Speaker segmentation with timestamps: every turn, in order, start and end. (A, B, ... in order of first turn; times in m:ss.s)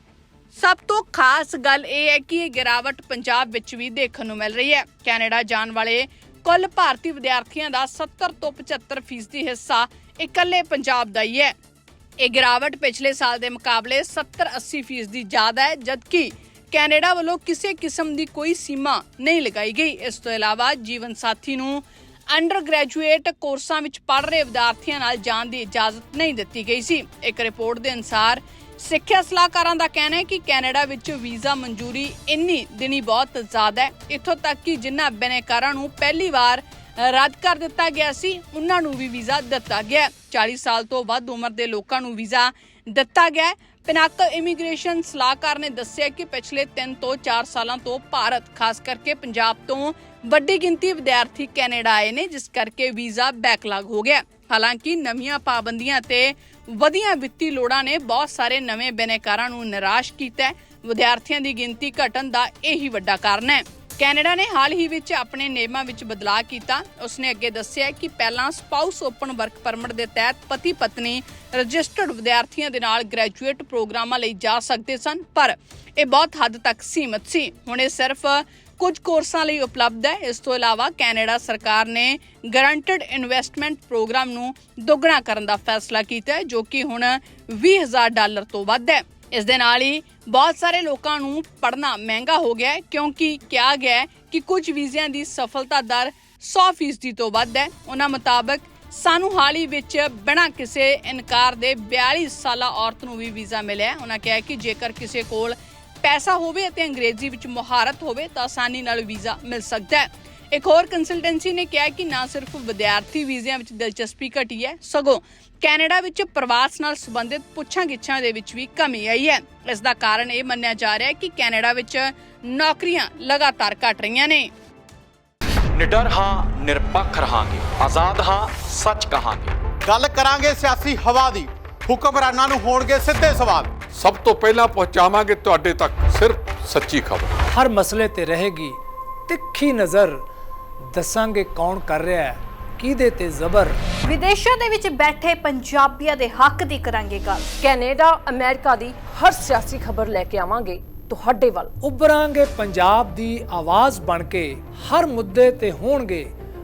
0:00.5-0:11.5 A
0:12.2-2:04.5 A
2:05.7-2:09.5 B
2:09.8-2:13.8 C
2:13.9-2:17.3 D
2:17.5-2:20.2 E
2:20.9-2:23.8 E
2:24.0-2:27.5 F
2:27.5-2:31.7 G
2:31.8-2:36.3 E